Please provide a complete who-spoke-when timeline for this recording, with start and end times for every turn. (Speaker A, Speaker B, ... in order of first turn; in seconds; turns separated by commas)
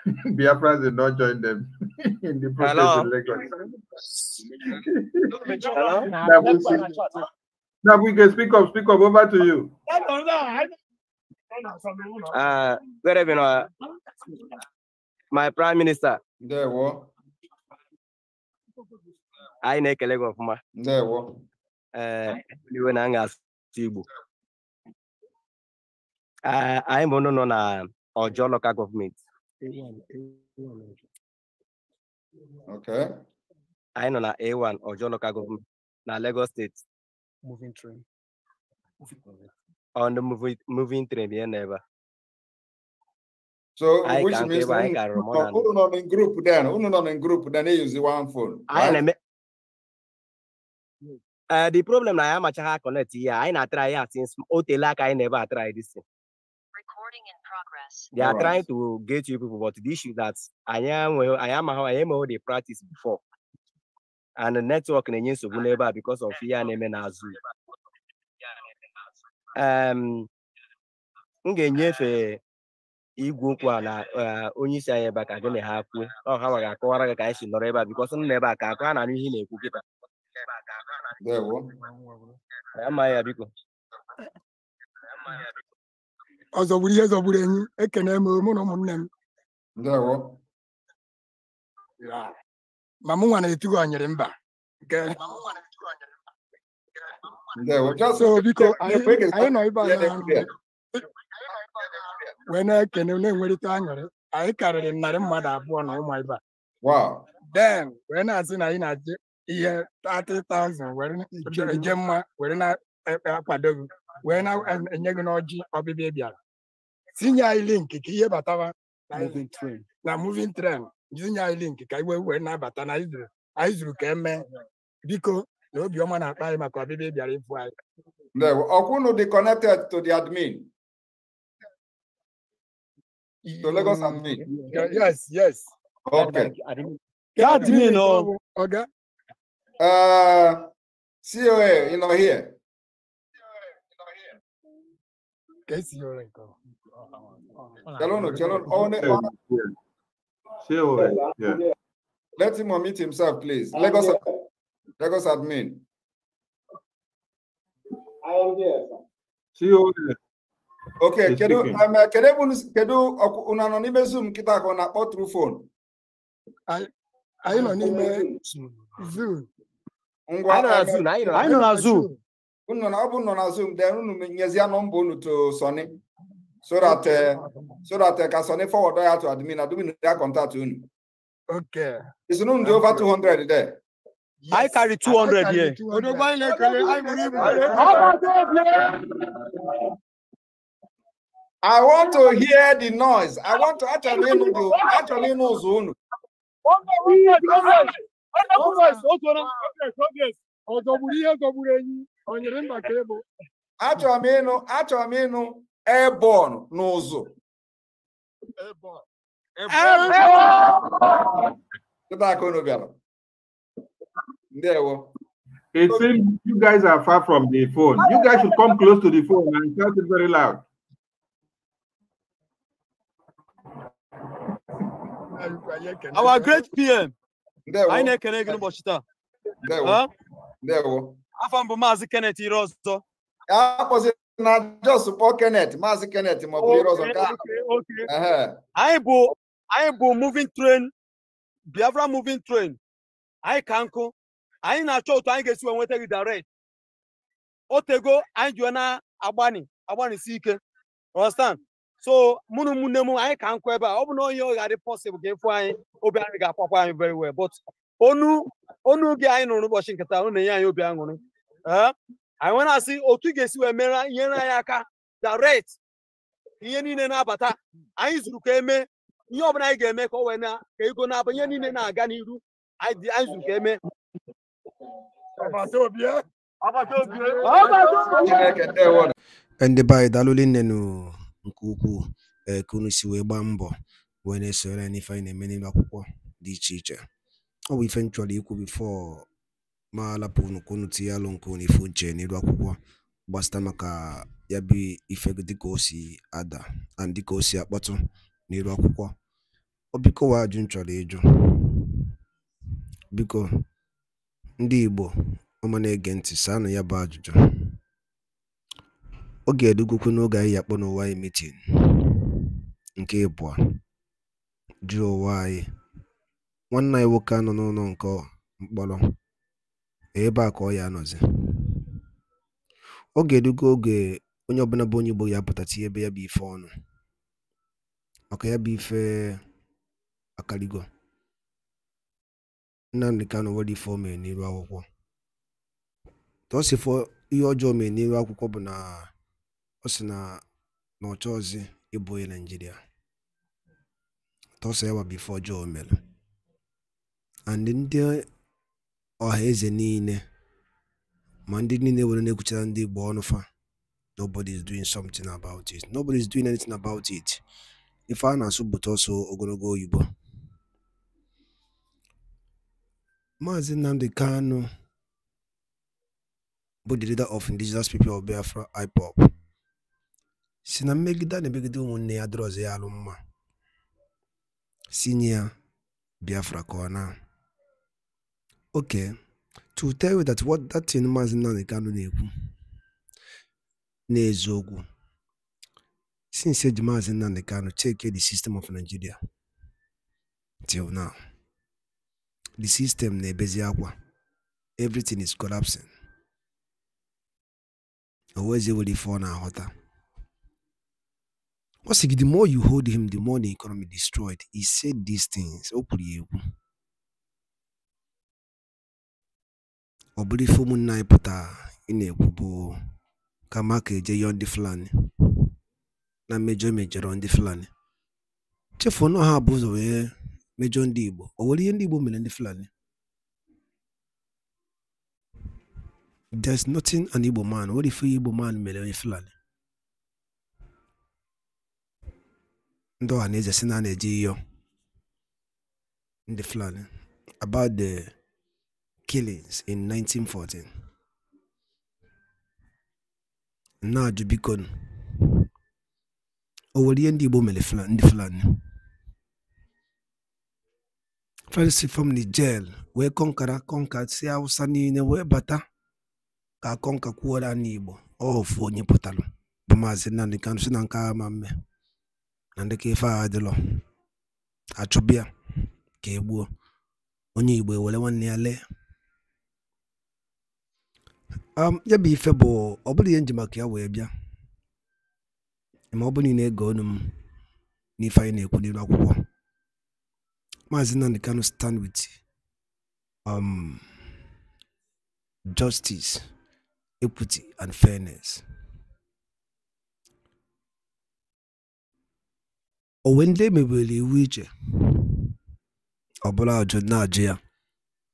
Speaker A: 0.3-3.5, Speaker B: 2.6-3.1, Speaker A: 4.7-5.4, Speaker A: 6.2-6.8, Speaker A: 7.8-9.7, Speaker B: 12.3-13.7, Speaker B: 15.3-16.2, Speaker C: 16.4-17.1, Speaker B: 19.6-20.6, Speaker C: 20.8-21.4, Speaker B: 21.9-24.0, Speaker B: 26.4-29.2, Speaker C: 32.7-33.1, Speaker B: 34.0-36.8, Speaker B: 40.0-41.8, Speaker C: 43.8-49.0, Speaker B: 44.0-45.7, Speaker B: 48.7-49.1, Speaker B: 51.5-56.0, Speaker B: 58.1-63.2, Speaker C: 58.1-58.6, Speaker B: 64.4-67.4, Speaker B: 69.5-70.3, Speaker B: 71.4-72.4, Speaker B: 73.2-79.8, Speaker C: 81.2-81.7, Speaker B: 82.7-83.5, Speaker D: 86.5-89.1, Speaker C: 89.8-90.4, Speaker D: 92.0-92.3, Speaker D: 93.0-94.3, Speaker D: 94.8-95.5, Speaker C: 97.5-100.5, Speaker D: 98.1-100.4, Speaker D: 102.5-106.4, Speaker C: 106.8-107.2, Speaker D: 107.5-116.3, Speaker D: 117.2-119.5, Speaker D: 120.0-124.4, Speaker D: 125.0-127.7, Speaker C: 128.3-130.7, Speaker D: 133.4-134.0, Speaker C: 133.6-134.4, Speaker D: 134.6-135.7, Speaker C: 136.1-136.5, Speaker D: 137.3-138.8, Speaker E: 137.4-138.3, Speaker C: 139.8-140.7, Speaker C: 141.2-142.6, Speaker D: 145.7-146.5, Speaker C: 148.0-149.3, Speaker A: 148.2-149.7, Speaker A: 150.6-151.6, Speaker C: 152.4-154.2, Speaker C: 155.0-155.8, Speaker A: 159.6-160.2, Speaker C: 161.0-165.7, Speaker A: 161.2-161.8, Speaker D: 167.4-168.3, Speaker D: 169.0-169.5, Speaker C: 170.3-171.6, Speaker B: 170.5-171.8, Speaker E: 171.3-172.1, Speaker D: 171.6-172.1, Speaker C: 172.7-175.9, Speaker C: 176.6-180.9, Speaker D: 181.5-182.0, Speaker C: 182.3-183.8, Speaker D: 182.7-183.1, Speaker D: 184.4-188.9, Speaker E: 184.5-188.3, Speaker C: 191.6-195.9, Speaker D: 196.8-197.9, Speaker E: 197.1-197.8, Speaker D: 198.5-203.2, Speaker E: 198.5-199.5, Speaker C: 203.8-207.3, Speaker D: 209.7-210.6, Speaker E: 209.7-210.3, Speaker C: 212.1-212.9, Speaker C: 214.5-215.1, Speaker A: 215.7-220.6, Speaker D: 225.4-226.7, Speaker E: 226.1-227.1, Speaker C: 227.7-228.6, Speaker E: 227.9-229.0, Speaker C: 229.6-230.0, Speaker E: 229.8-230.1, Speaker C: 230.6-231.2, Speaker E: 231.4-233.0, Speaker C: 233.5-237.4, Speaker E: 236.6-238.0, Speaker C: 238.1-238.6, Speaker E: 238.8-240.9, Speaker E: 241.7-242.8, Speaker E: 243.4-246.4, Speaker E: 247.7-250.6, Speaker E: 251.1-265.8, Speaker E: 266.6-273.8, Speaker D: 275.4-276.2, Speaker E: 276.7-278.3, Speaker D: 277.0-278.3, Speaker C: 278.2-279.1, Speaker F: 279.6-283.7, Speaker F: 284.2-287.0, Speaker F: 287.7-289.3, Speaker F: 289.9-299.1, Speaker F: 299.9-301.8, Speaker F: 303.1-303.5, Speaker F: 304.6-307.3, Speaker F: 309.5-311.6, Speaker F: 313.0-313.6, Speaker F: 314.9-315.6, Speaker F: 316.7-319.0, Speaker F: 320.1-321.2, Speaker F: 323.1-326.7, Speaker F: 328.3-329.4, Speaker F: 330.4-330.9, Speaker F: 332.9-334.8, Speaker F: 336.5-339.1, Speaker F: 339.8-340.4, Speaker F: 341.0-342.8, Speaker F: 344.6-346.0, Speaker F: 347.5-348.2, Speaker F: 349.2-350.2, Speaker F: 351.5-353.4, Speaker F: 354.2-357.4, Speaker F: 358.1-360.0, Speaker F: 363.4-364.7, Speaker F: 366.9-369.2, Speaker F: 370.6-373.1, Speaker F: 374.9-375.5, Speaker F: 376.2-377.1, Speaker F: 378.7-379.1, Speaker F: 379.7-382.3, Speaker F: 384.1-384.8, Speaker F: 386.3-389.1, Speaker F: 390.6-391.1, Speaker F: 392.6-393.9, Speaker F: 394.8-395.9, Speaker F: 398.4-399.7, Speaker F: 401.8-406.4, Speaker F: 410.2-412.8, Speaker F: 413.5-414.9, Speaker F: 416.3-417.7, Speaker F: 418.8-422.7, Speaker F: 426.4-429.3, Speaker F: 433.0-434.4, Speaker F: 436.3-436.9, Speaker F: 437.4-438.1, Speaker F: 439.1-440.7, Speaker F: 443.8-444.7, Speaker F: 446.7-448.6, Speaker F: 451.5-455.6, Speaker F: 456.6-461.5, Speaker F: 462.6-463.5, Speaker F: 464.8-465.3, Speaker F: 466.0-466.4, Speaker F: 467.4-468.6, Speaker F: 471.6-474.1, Speaker F: 475.9-477.1, Speaker F: 478.0-479.2, Speaker F: 480.7-482.2, Speaker F: 483.2-483.8, Speaker F: 485.5-486.3, Speaker F: 487.0-488.4, Speaker F: 493.0-494.5, Speaker F: 496.2-497.4